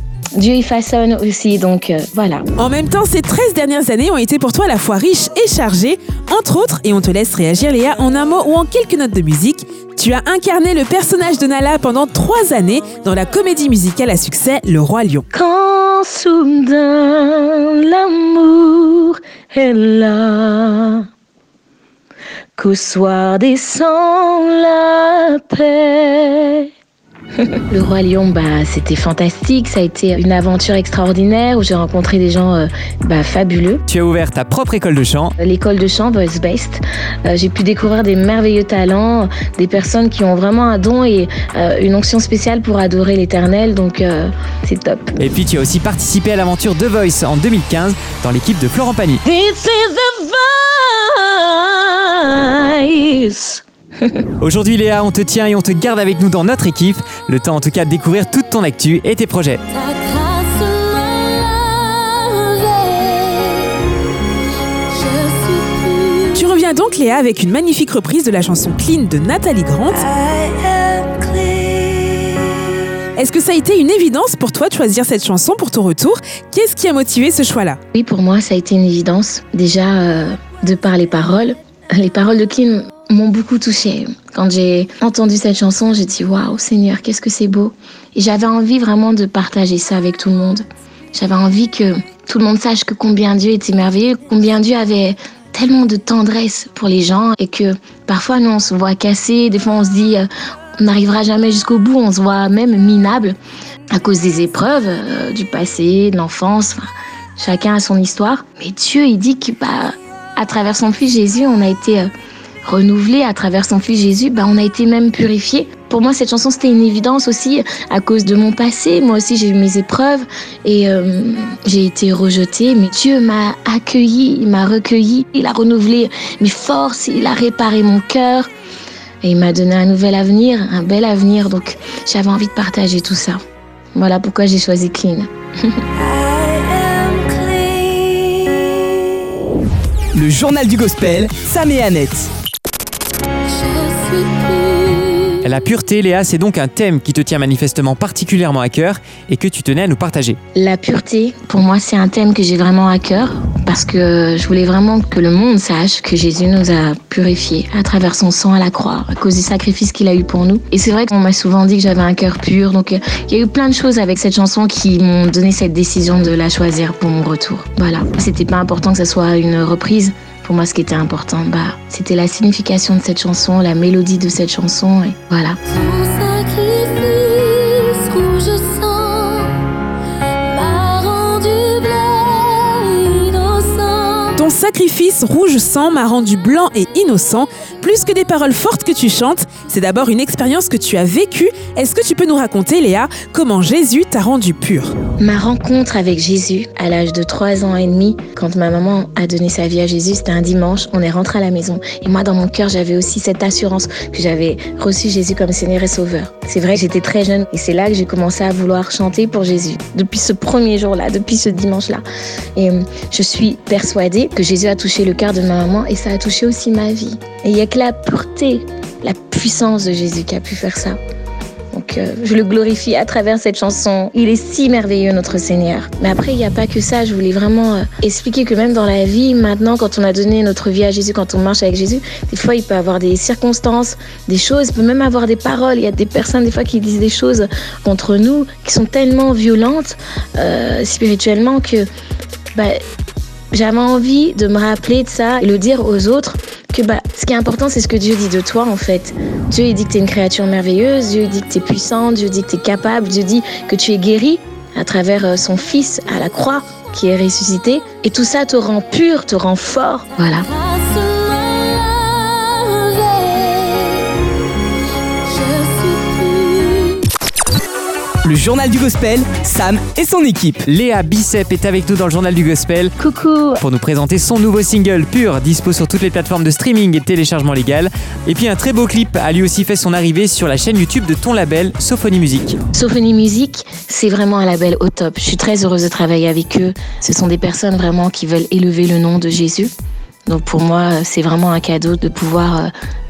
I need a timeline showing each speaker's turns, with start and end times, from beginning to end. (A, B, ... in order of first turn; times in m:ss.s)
0:00.4-0:02.5 A
0:02.6-0:15.3 B
0:15.3-0:21.0 A
0:22.6-0:26.7 A
0:27.6-0:33.8 A
0:33.9-0:35.4 C
0:35.4-0:45.2 A
0:45.2-0:49.2 C
0:49.2-0:54.2 A
0:54.4-0:59.6 C
0:59.7-1:03.7 D
1:04.9-1:06.4 D
1:06.3-1:10.0 B
1:10.0-1:12.6 D
1:13.2-1:17.8 B
1:17.9-1:40.3 A
1:40.8-1:43.4 A
1:43.9-1:46.9 A
1:47.4-1:52.1 A
1:52.6-2:08.5 A
2:09.2-2:13.4 A
2:14.0-2:15.8 A
2:16.0-2:19.0 D
2:20.1-2:22.3 E
2:23.6-2:25.4 D
2:25.4-2:30.4 C
2:30.6-2:55.6 A
2:55.7-2:59.6 D
3:00.5-3:04.4 D
3:04.4-3:15.0 B
3:15.2-3:32.0 A
3:32.6-3:41.0 A
3:41.7-4:01.9 A
4:03.5-4:20.5 A
4:20.5-4:24.1 D
4:25.3-4:27.1 D
4:28.2-4:30.6 E
4:30.7-4:32.9 C
4:33.0-4:33.6 A
4:33.6-4:42.6 C
4:42.7-4:49.7 A
4:50.3-4:52.7 A